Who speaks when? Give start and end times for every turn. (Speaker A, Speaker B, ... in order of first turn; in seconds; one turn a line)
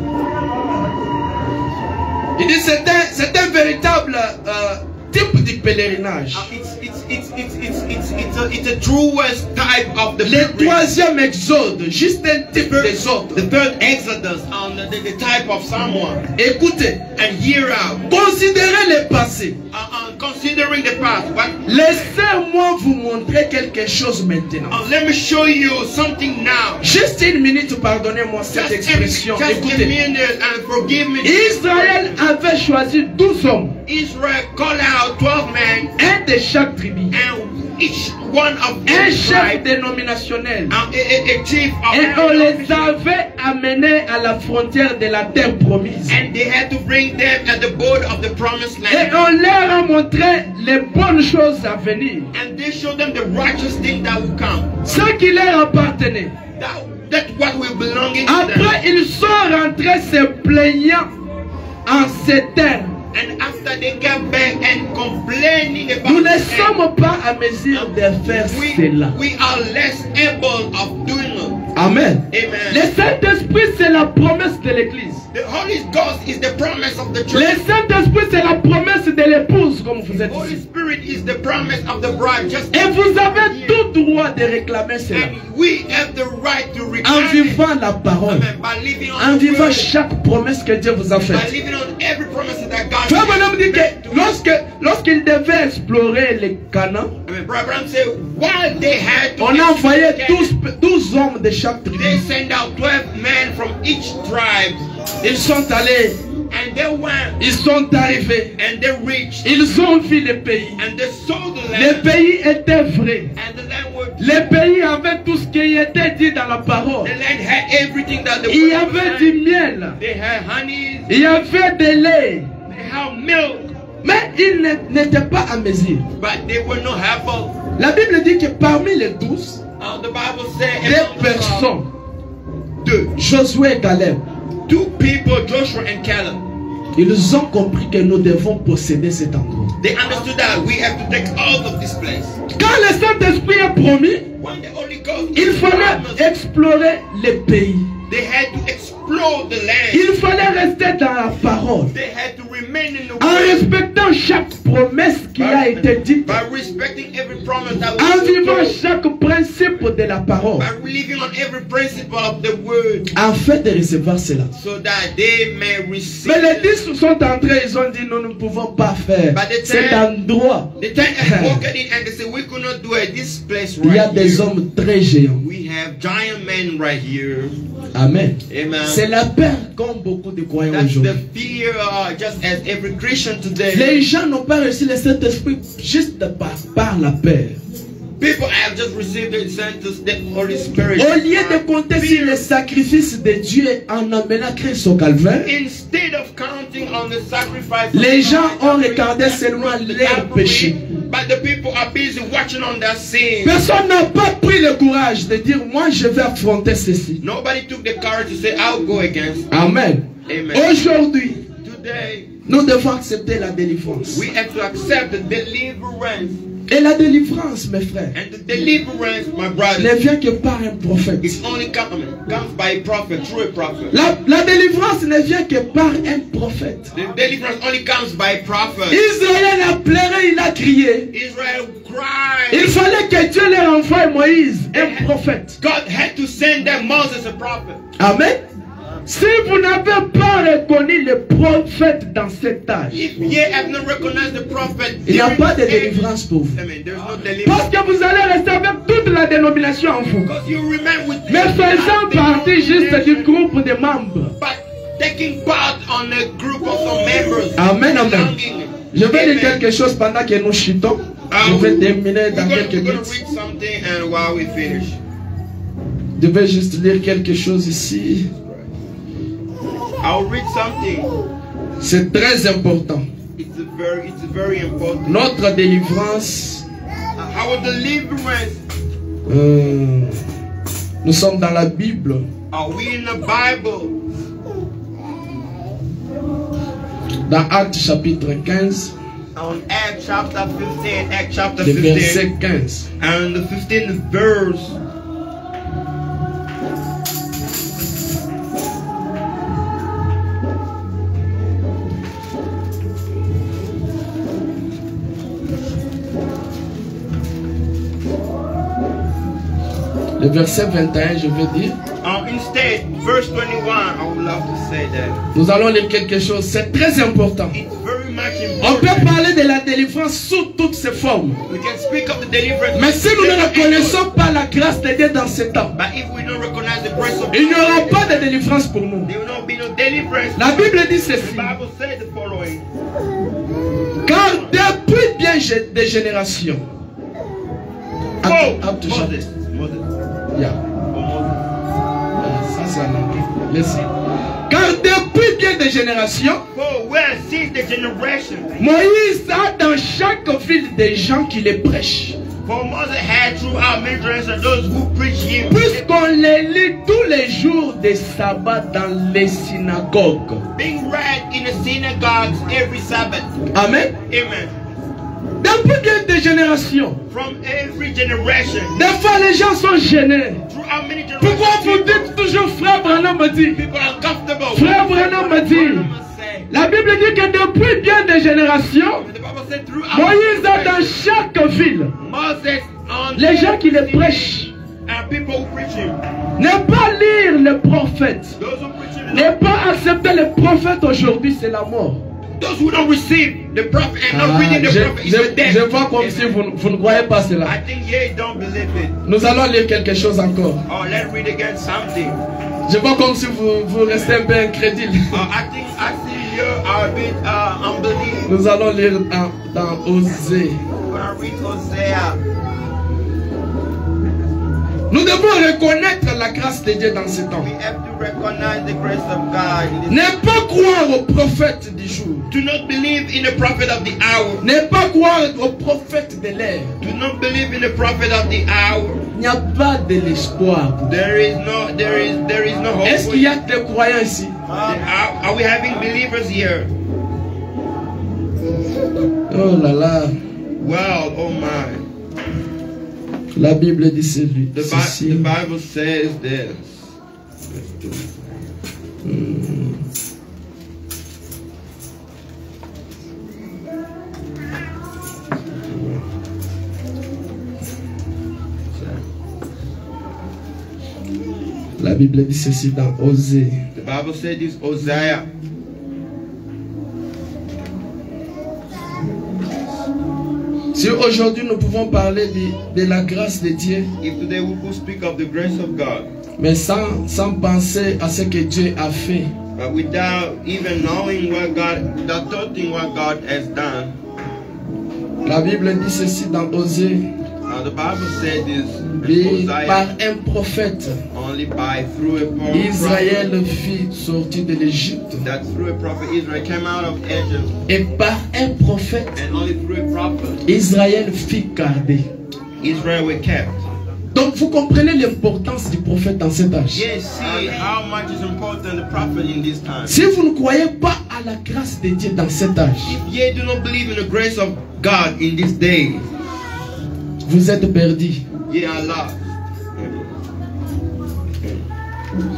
Speaker A: 2.4-6.5
Speaker B: 6.3-10.8
Speaker A: 10.2-13.4
Speaker B: 12.6-16.2
Speaker A: 16.3-17.0
Speaker B: 17.2-18.0
Speaker A: 18.1-19.6
Speaker B: 19.7-22.1
Speaker A: 21.6-24.8
Speaker B: 24.7-26.9
Speaker A: 26.8-29.9
Speaker B: 28.5-32.1
Speaker A: 31.2-33.7
Speaker B: 33.9-35.9
Speaker A: 36.0-37.1
Speaker B: 37.1-39.6
Speaker A: 38.9-40.8
Speaker B: 40.7-43.0
Speaker A: 41.9-46.2
Speaker B: 46.1-49.3
Speaker A: 48.9-52.3
Speaker B: 52.3-54.8
Speaker A: 54.8-56.3
Speaker B: 56.5-58.8
Speaker A: 58.2-61.1
Speaker A: 61.9-63.0
Speaker B: 63.1-66.8
Speaker A: 66.0-69.1
Speaker B: 67.7-71.6
Speaker A: 71.7-75.2
Speaker B: 72.3-72.8
Speaker B: 75.3-77.6
Speaker A: 77.3-80.6
Speaker B: 80.1-83.8
Speaker A: 82.7-85.3
Speaker B: 85.1-87.6
Speaker A: 87.0-88.5
Speaker B: 88.3-89.9
Speaker A: 89.2-91.5
Speaker B: 91.2-94.4
Speaker A: 93.1-97.1
Speaker B: 97.3-100.5
Speaker A: 99.4-102.2
Speaker B: 101.9-104.8
Speaker A: 105.2-106.2
Speaker B: 106.5-107.4
Speaker A: 107.4-108.5
Speaker B: 108.6-109.5
Speaker A: 109.4-110.8
Speaker B: 110.8-112.1
Speaker A: 111.7-113.3
Speaker B: 113.3-114.5
Speaker A: 114.2-117.1
Speaker B: 117.0-119.4
Speaker A: 118.5-120.0
Speaker B: 120.0-121.1
Speaker A: 121.1-122.5
Speaker B: 122.7-123.7
Speaker A: 124.0-126.0
Speaker B: 126.2-127.6
Speaker A: 127.8-129.6
Speaker B: 129.8-131.7
Speaker A: 130.8-131.9
Speaker B: 132.8-133.1
Speaker A: 133.2-134.2
Speaker B: 134.7-136.4
Speaker A: 136.9-139.7
Speaker B: 139.8-142.4
Speaker A: 142.5-144.2
Speaker B: 144.4-146.3
Speaker A: 145.3-147.9
Speaker B: 148.1-150.1
Speaker A: 149.9-151.9
Speaker B: 151.9-153.7
Speaker A: 153.2-156.4
Speaker B: 155.4-158.8
Speaker A: 158.0-160.7
Speaker B: 160.6-163.1
Speaker A: 163.1-164.5
Speaker B: 164.5-166.8
Speaker A: 166.2-171.6
Speaker B: 169.3-170.0
Speaker B: 170.8-174.5
Speaker A: 173.8-175.4
Speaker B: 175.4-177.6
Speaker A: 177.9-181.2
Speaker B: 178.5-179.0
Speaker B: 180.7-184.0
Speaker A: 183.7-187.6
Speaker B: 188.2-192.5
Speaker A: 190.9-195.5
Speaker B: 195.4-203.6
Speaker A: 197.9-200.8
Speaker A: 203.4-207.2
Speaker B: 207.2-209.5
Speaker A: 209.5-211.4
Speaker B: 210.3-210.8
Speaker B: 211.6-212.3
Speaker A: 212.4-214.3
Speaker B: 214.1-216.4
Speaker A: 216.7-218.1
Speaker B: 218.1-220.0
Speaker A: 219.8-221.4
Speaker B: 221.2-223.9
Speaker A: 223.9-226.9
Speaker B: 226.9-229.0
Speaker A: 228.9-231.1
Speaker B: 231.1-232.8
Speaker A: 232.5-235.6
Speaker B: 234.7-237.8
Speaker A: 238.0-238.4
Speaker A: 239.1-243.1
Speaker B: 242.9-247.7
Speaker A: 245.1-246.6
Speaker A: 247.4-250.3
Speaker B: 250.2-253.3
Speaker A: 251.3-254.3
Speaker B: 254.4-259.6
Speaker A: 257.6-258.3
Speaker A: 258.9-263.1
Speaker B: 261.3-265.0
Speaker A: 266.2-268.3
Speaker B: 268.4-268.7
Speaker B: 270.0-271.2
Speaker A: 271.8-273.1
Speaker B: 273.4-275.2
Speaker A: 275.1-276.6
Speaker B: 277.2-278.6
Speaker A: 279.3-280.2
Speaker A: 281.0-282.3
Speaker B: 282.5-283.9
Speaker A: 287.3-288.9
Speaker B: 289.3-292.2
Speaker A: 291.6-292.9
Speaker B: 293.0-294.8
Speaker A: 310.2-311.8
Speaker B: 312.0-315.2
Speaker A: 315.3-317.6
Speaker B: 317.5-319.1
Speaker A: 318.6-321.4
Speaker B: 321.5-324.0
Speaker A: 322.7-325.7
Speaker B: 325.7-328.3
Speaker A: 327.3-329.1
Speaker B: 329.1-332.6
Speaker A: 330.4-331.5
Speaker B: 333.5-334.5
Speaker A: 334.0-336.6
Speaker A: 338.2-339.1
Speaker B: 338.2-339.9
Speaker B: 340.9-341.4
Speaker A: 342.2-343.9
Speaker A: 344.5-346.4
Speaker B: 346.5-348.6
Speaker A: 348.6-352.2
Speaker B: 352.4-355.7
Speaker A: 355.5-360.4
Speaker B: 360.6-364.5
Speaker A: 363.5-363.9
Speaker A: 365.4-367.0
Speaker B: 367.1-368.8
Speaker A: 368.8-370.4
Speaker B: 370.5-372.1
Speaker A: 371.2-373.6
Speaker B: 372.9-376.5
Speaker A: 374.5-375.9
Speaker A: 376.5-379.1
Speaker B: 379.0-380.9
Speaker A: 379.9-381.9
Speaker B: 382.0-386.0
Speaker A: 383.1-384.5
Speaker A: 386.4-388.4
Speaker B: 388.4-389.4
Speaker A: 389.1-392.0
Speaker B: 392.4-398.9
Speaker A: 394.1-397.6
Speaker A: 399.0-400.6
Speaker B: 400.7-402.2
Speaker A: 402.7-405.2
Speaker B: 405.1-408.3
Speaker A: 408.3-410.6
Speaker B: 410.8-412.2
Speaker A: 414.9-417.5
Speaker B: 417.4-420.2
Speaker A: 419.9-422.3
Speaker B: 422.3-424.4
Speaker A: 424.4-426.8
Speaker B: 426.8-429.1
Speaker A: 429.1-430.9
Speaker B: 430.9-433.3
Speaker A: 432.8-434.4
Speaker B: 434.5-436.7
Speaker A: 439.3-440.2
Speaker B: 440.6-441.8
Speaker A: 443.3-445.3
Speaker B: 444.5-446.9
Speaker A: 449.0-449.8
Speaker A: 455.7-456.0
Speaker B: 458.7-459.0
Speaker A: 461.8-463.6
Speaker B: 463.8-465.3
Speaker A: 470.7-473.9
Speaker B: 474.0-476.1
Speaker A: 476.4-479.3
Speaker B: 479.6-483.9
Speaker A: 485.2-487.1
Speaker B: 487.4-489.9
Speaker A: 489.0-491.0
Speaker B: 491.1-493.3
Speaker A: 492.5-495.2
Speaker B: 495.2-497.5
Speaker A: 497.7-499.2
Speaker B: 499.1-500.4
Speaker A: 500.4-502.0
Speaker B: 502.6-503.6
Speaker A: 504.1-506.9
Speaker B: 506.7-510.0
Speaker A: 509.9-513.0
Speaker B: 512.9-516.0
Speaker A: 517.2-518.2
Speaker B: 518.5-520.1